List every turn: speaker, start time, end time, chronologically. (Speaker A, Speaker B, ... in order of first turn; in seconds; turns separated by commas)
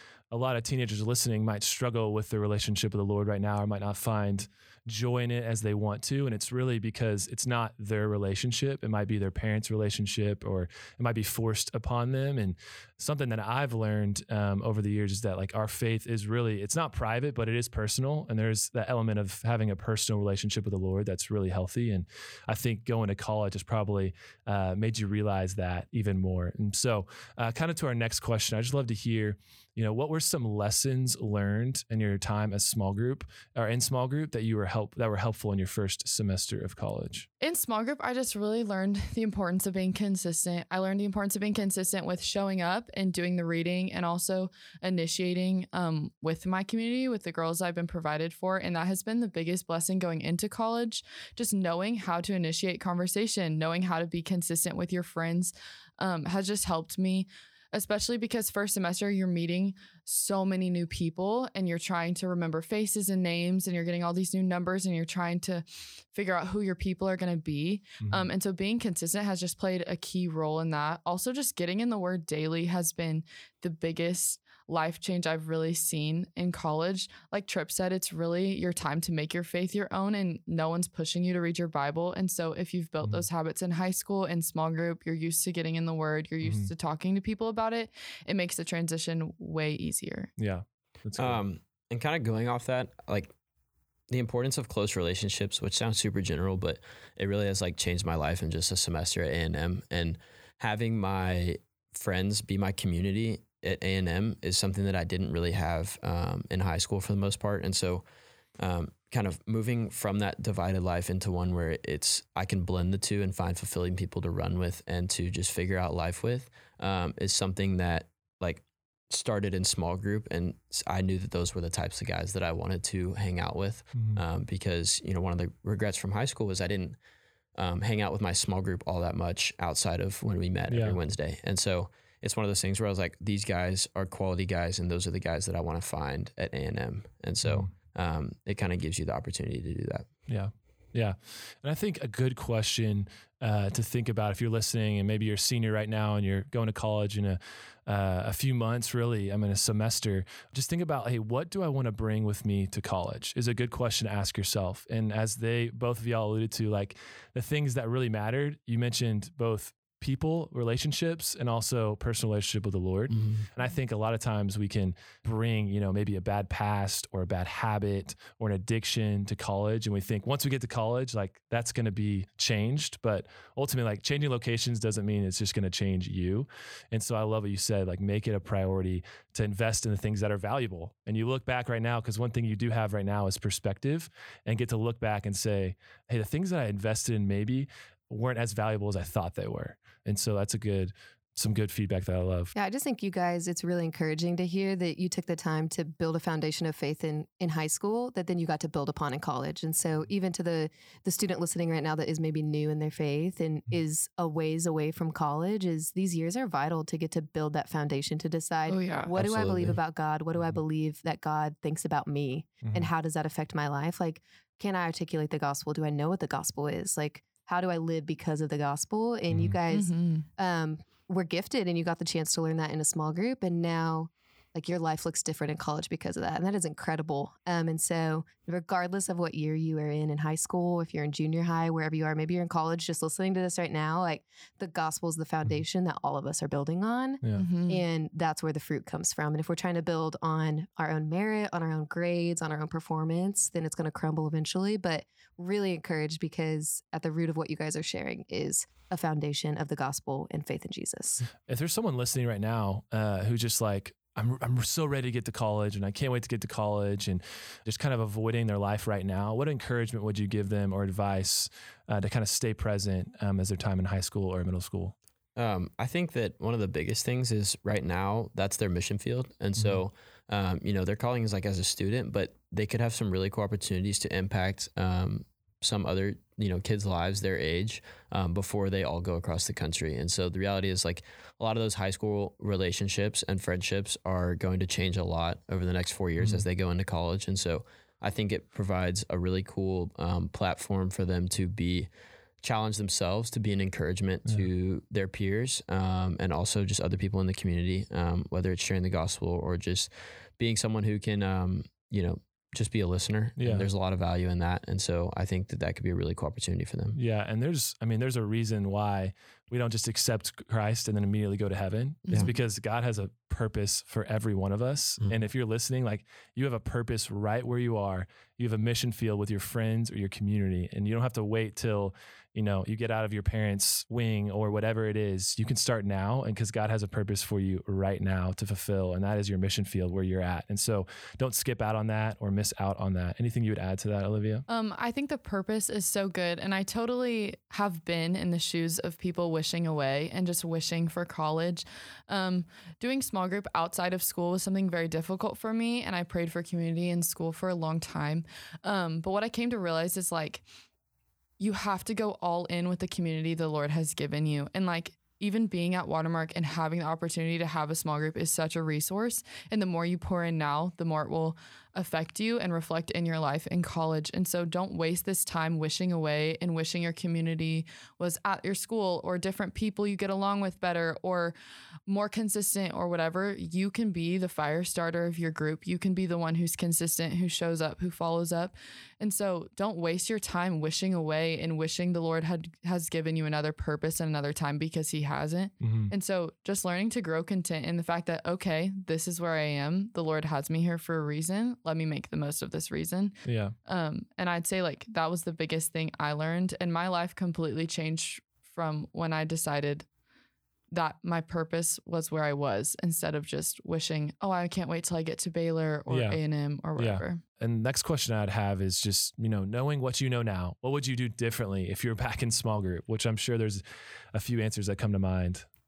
Speaker A: 0.3-37.3, Speaker B: 37.4-90.3, Speaker A: 68.0-68.3, Speaker A: 86.4-86.7, Speaker A: 90.4-91.4, Speaker C: 91.2-93.3, Speaker C: 94.1-108.0, Speaker C: 108.6-127.0, Speaker A: 123.9-124.2, Speaker C: 127.6-140.1, Speaker A: 130.7-131.0, Speaker A: 140.3-192.5, Speaker C: 163.1-163.5, Speaker D: 192.6-251.2, Speaker B: 208.7-209.1, Speaker C: 209.1-209.8, Speaker A: 212.6-212.9, Speaker B: 219.7-220.3, Speaker B: 237.3-237.8, Speaker A: 251.4-264.9, Speaker C: 265.4-291.9, Speaker C: 292.4-307.0, Speaker A: 303.4-303.7, Speaker A: 306.9-334.4, Speaker B: 312.1-312.3, Speaker B: 334.5-350.4, Speaker B: 351.4-371.3, Speaker B: 371.9-399.9, Speaker A: 385.6-385.9, Speaker A: 393.2-393.6, Speaker B: 400.7-407.2, Speaker A: 405.9-406.2, Speaker A: 406.8-415.4